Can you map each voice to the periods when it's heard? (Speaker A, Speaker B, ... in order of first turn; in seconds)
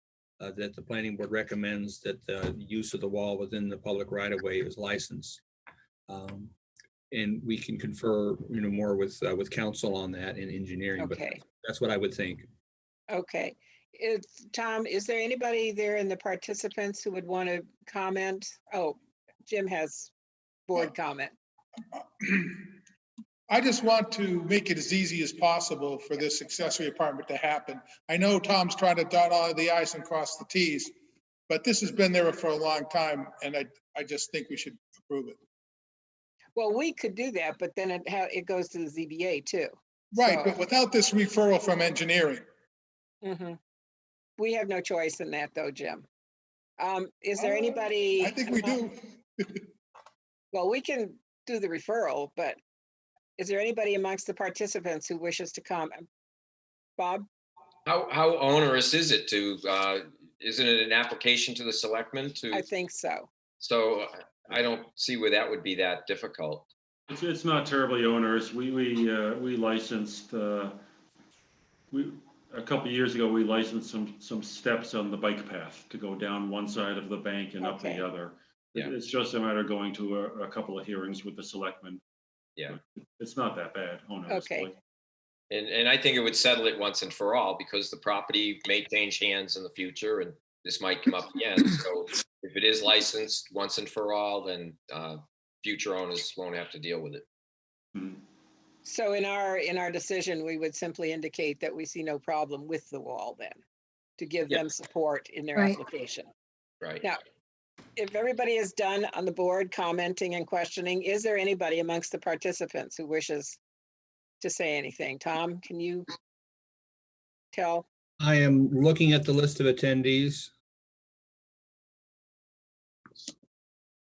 Speaker A: 0.4-5.4, 6.1-6.5, 7.1-12.5, 118.2-120.5
Speaker B: 11.0-11.4, 13.1-20.1, 20.7-21.3, 36.5-40.5, 43.2-43.6, 44.4-46.0, 46.8-48.8, 50.5-52.6, 53.4-56.0, 57.0-57.2, 62.5-63.3, 77.6-78.0, 84.3-84.7, 98.8-103.6, 104.2-106.3, 108.0-113.6, 114.4-116.1, 117.5-117.8
Speaker C: 22.0-22.8, 23.5-30.9, 31.5-35.4, 40.1-42.4, 47.4-49.7
Speaker D: 57.8-62.7, 63.6-66.7, 85.5-97.2
Speaker E: 67.1-70.8, 71.9-82.0, 82.7-84.8